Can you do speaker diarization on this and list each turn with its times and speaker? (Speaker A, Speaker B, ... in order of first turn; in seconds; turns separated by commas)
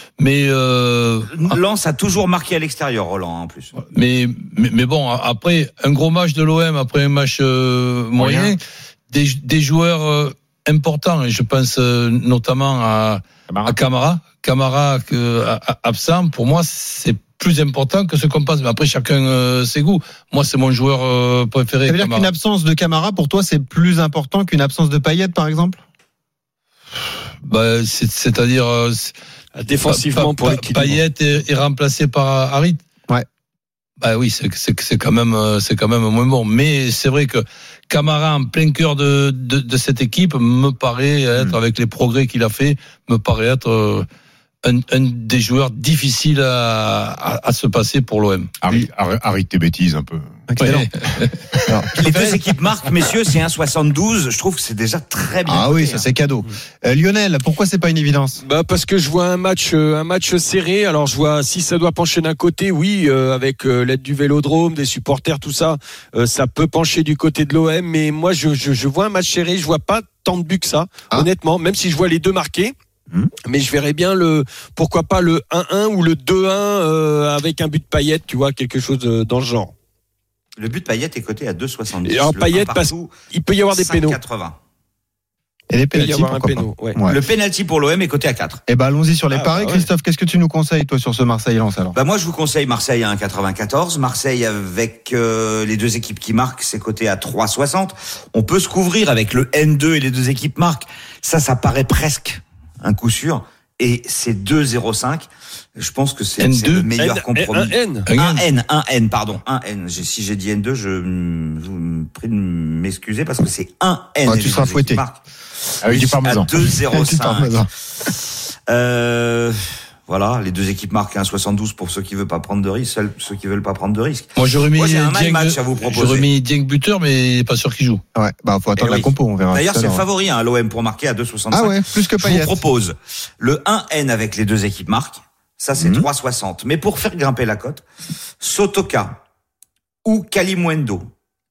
Speaker A: 0.2-1.6, Speaker B: 1.3-3.8, Speaker A: 3.9-22.3, Speaker C: 8.2-8.5, Speaker C: 13.5-13.8, Speaker D: 21.9-25.8, Speaker A: 27.4-29.1, Speaker E: 29.6-31.0, Speaker A: 29.9-32.8, Speaker A: 34.0-44.1, Speaker A: 44.6-48.5, Speaker C: 48.6-50.8, Speaker D: 50.5-50.9, Speaker A: 50.6-51.3, Speaker C: 51.5-52.4, Speaker B: 52.0-56.0, Speaker D: 55.5-58.4, Speaker E: 58.4-72.7, Speaker E: 73.5-79.7, Speaker B: 80.6-83.1, Speaker E: 82.0-84.2, Speaker B: 83.7-84.6, Speaker D: 85.7-87.2, Speaker E: 85.9-87.0, Speaker B: 87.0-88.6, Speaker D: 88.7-92.0, Speaker E: 89.3-89.8, Speaker B: 91.9-115.2, Speaker A: 106.4-106.9, Speaker E: 107.0-108.1, Speaker A: 108.1-108.4, Speaker D: 114.2-115.0, Speaker C: 115.8-116.5, Speaker B: 115.8-117.7, Speaker D: 116.9-117.7, Speaker B: 118.7-126.3, Speaker A: 124.3-128.0, Speaker D: 128.1-130.0, Speaker B: 128.8-137.8, Speaker D: 131.5-132.6, Speaker D: 135.8-136.1, Speaker B: 138.4-139.2, Speaker B: 140.0-141.1